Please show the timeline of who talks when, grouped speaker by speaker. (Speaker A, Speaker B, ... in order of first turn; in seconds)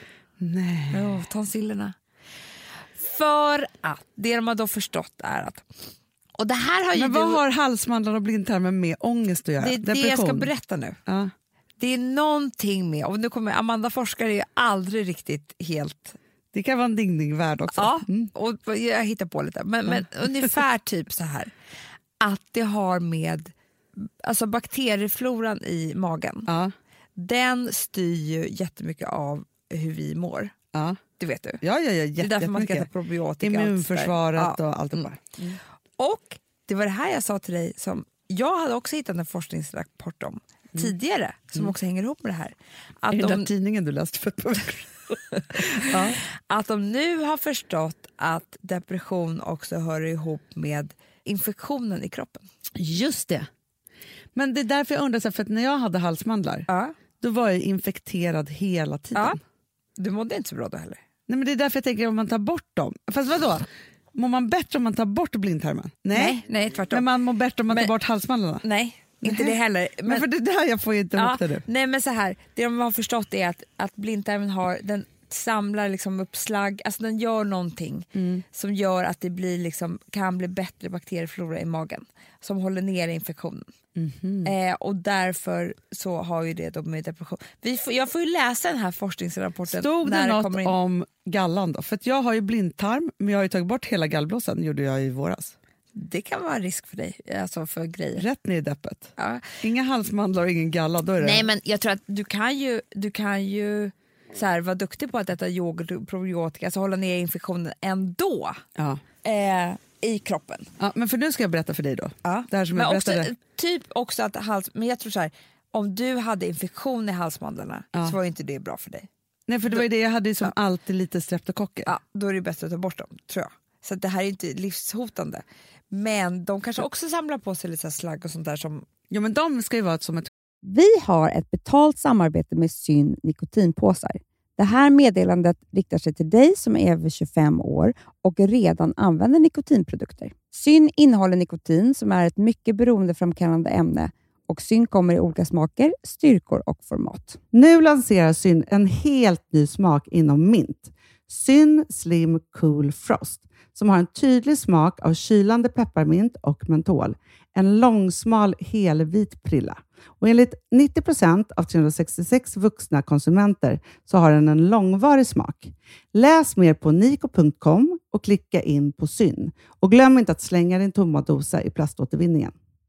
Speaker A: 0.4-1.2, 6.9-10.5, 11.1-11.3, 16.5-18.3, 26.5-26.7, 30.7-31.0, 31.6-32.9, 33.4-35.6, 43.1-46.2, 52.8-53.5, 54.4-56.7, 57.2-59.4, 61.3-66.4, 66.9-68.7, 69.2-71.7, 78.2-78.4, 84.0-84.5, 89.7-95.5, 98.2-101.5, 108.8-109.0, 110.8-113.3, 119.5-121.9, 129.1-130.3
Speaker B: 0.9-2.0, 3.0-5.7, 6.4-7.4, 9.6-11.0, 11.8-16.2, 17.7-21.5, 22.2-26.5, 27.2-30.5, 31.2-31.6, 32.2-35.1, 36.0-43.5, 45.6-52.5, 56.7-57.0, 60.0-61.0, 66.1-67.1, 68.6-70.3, 71.2-83.7, 84.5-90.8, 96.0-98.3, 99.2-99.5, 101.2-108.6, 109.2-110.7, 112.2-119.1, 121.9-128.9
Speaker C: 130.6-147.4
Speaker D: 147.5-172.5